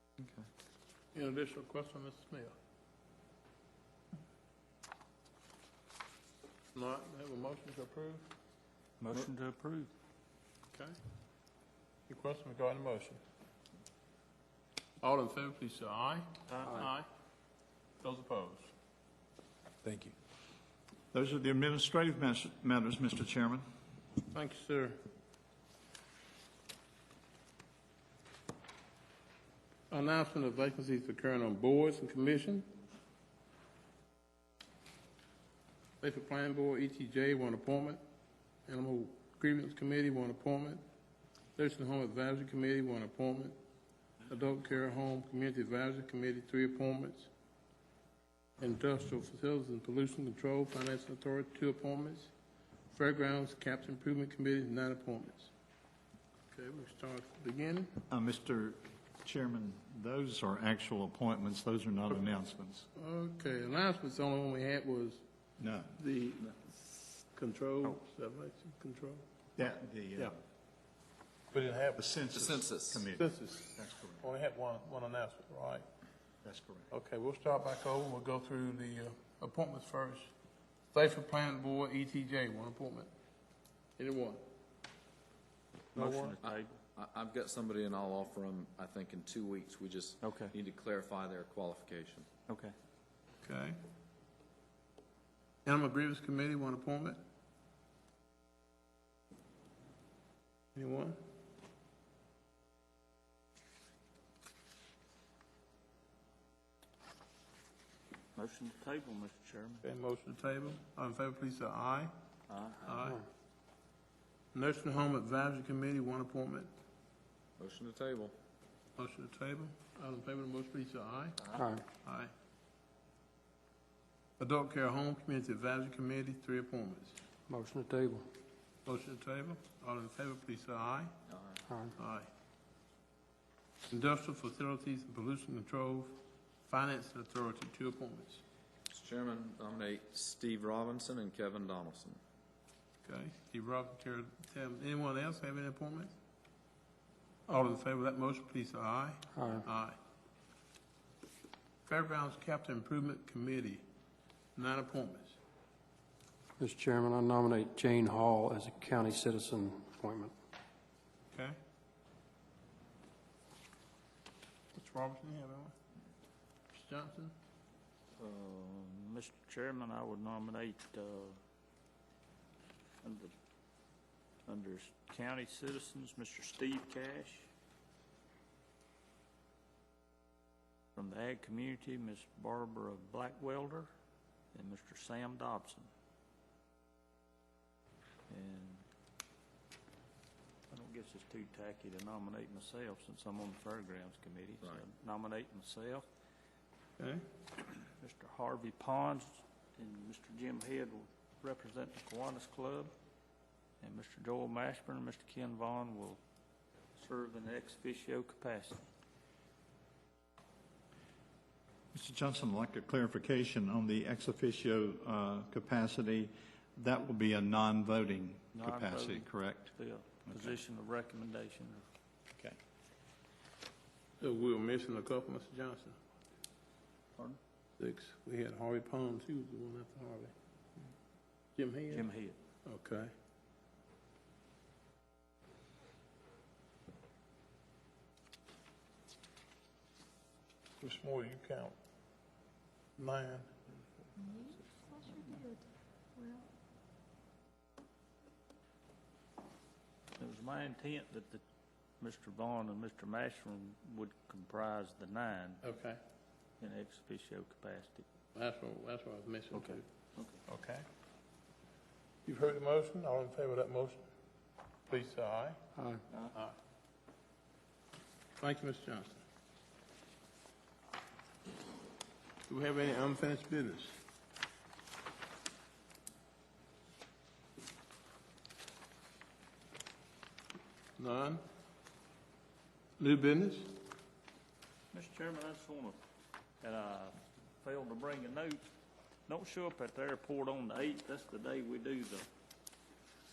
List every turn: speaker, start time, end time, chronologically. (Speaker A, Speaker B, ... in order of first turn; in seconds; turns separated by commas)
Speaker A: 1.1-2.5, Speaker A: 6.7-8.3, Speaker B: 9.0-9.9, Speaker A: 12.1-13.2, Speaker A: 15.0-17.1, Speaker B: 16.5-16.9, Speaker A: 18.0-18.7, Speaker C: 19.8-20.1, Speaker D: 21.1-23.6, Speaker A: 24.3-25.0, Speaker A: 29.9-32.7, Speaker A: 36.0-38.0, Speaker A: 38.7-40.8, Speaker A: 41.5-43.5, Speaker A: 44.3-47.3, Speaker A: 48.6-52.3, Speaker A: 52.9-55.5, Speaker A: 56.5-57.9, Speaker D: 58.1-62.9, Speaker A: 63.0-65.2, Speaker D: 65.6-65.9, Speaker A: 66.0-69.2, Speaker D: 69.6-70.4, Speaker A: 71.5-72.1, Speaker D: 72.0-74.2, Speaker C: 72.3-73.0, Speaker A: 73.1-75.8, Speaker D: 76.4-76.9, Speaker A: 76.9-80.3, Speaker A: 80.9-83.1, Speaker A: 84.0-84.4, Speaker B: 85.9-86.8, Speaker A: 86.0-86.4, Speaker C: 86.4-92.3, Speaker B: 90.2-90.5, Speaker B: 92.5-92.7, Speaker A: 93.4-93.8, Speaker A: 95.7-97.2, Speaker A: 100.7-101.2, Speaker B: 108.3-109.8, Speaker A: 109.8-112.1, Speaker C: 112.5-112.8, Speaker A: 112.8-113.2, Speaker A: 114.5-116.7, Speaker C: 117.6-118.3, Speaker A: 119.0-122.3, Speaker E: 121.5-121.8, Speaker A: 124.4-127.2, Speaker E: 127.5-128.3, Speaker A: 128.8-131.2, Speaker C: 131.3-131.6, Speaker E: 131.7-131.9, Speaker A: 132.0-132.3, Speaker A: 133.9-138.4, Speaker C: 138.9-142.2, Speaker A: 143.0-146.1, Speaker A: 147.5-150.0, Speaker E: 149.3-149.7, Speaker A: 151.9-153.8, Speaker A: 154.6-155.4, Speaker E: 156.6-160.3, Speaker A: 161.3-161.6, Speaker A: 164.7-165.7, Speaker A: 166.7-167.3, Speaker B: 168.2-171.4, Speaker B: 173.0-173.3, Speaker B: 174.4-177.5, Speaker B: 180.9-183.9, Speaker B: 184.5-185.9, Speaker B: 188.3-188.8, Speaker B: 190.7-196.1, Speaker B: 197.8-202.9, Speaker B: 203.8-206.2, Speaker B: 207.0-208.8, Speaker D: 211.9-219.8, Speaker B: 218.5-221.9, Speaker D: 220.3-220.6, Speaker A: 224.2-226.0, Speaker A: 227.8-230.3, Speaker A: 231.6-232.1, Speaker B: 231.9-232.4, Speaker A: 232.6-233.1, Speaker A: 240.8-241.8, Speaker A: 243.0-243.5, Speaker B: 244.3-245.4, Speaker B: 250.2-251.4, Speaker B: 252.0-255.6, Speaker A: 255.6-256.0, Speaker B: 256.6-258.0, Speaker A: 258.3-259.8, Speaker B: 259.5-260.4, Speaker A: 260.5-260.8, Speaker A: 262.2-264.1, Speaker A: 264.9-265.6, Speaker E: 265.8-266.0, Speaker A: 268.4-269.2, Speaker A: 272.5-274.0, Speaker A: 281.0-281.4, Speaker A: 283.0-283.7, Speaker B: 284.9-286.0, Speaker B: 286.6-288.6, Speaker B: 289.3-292.3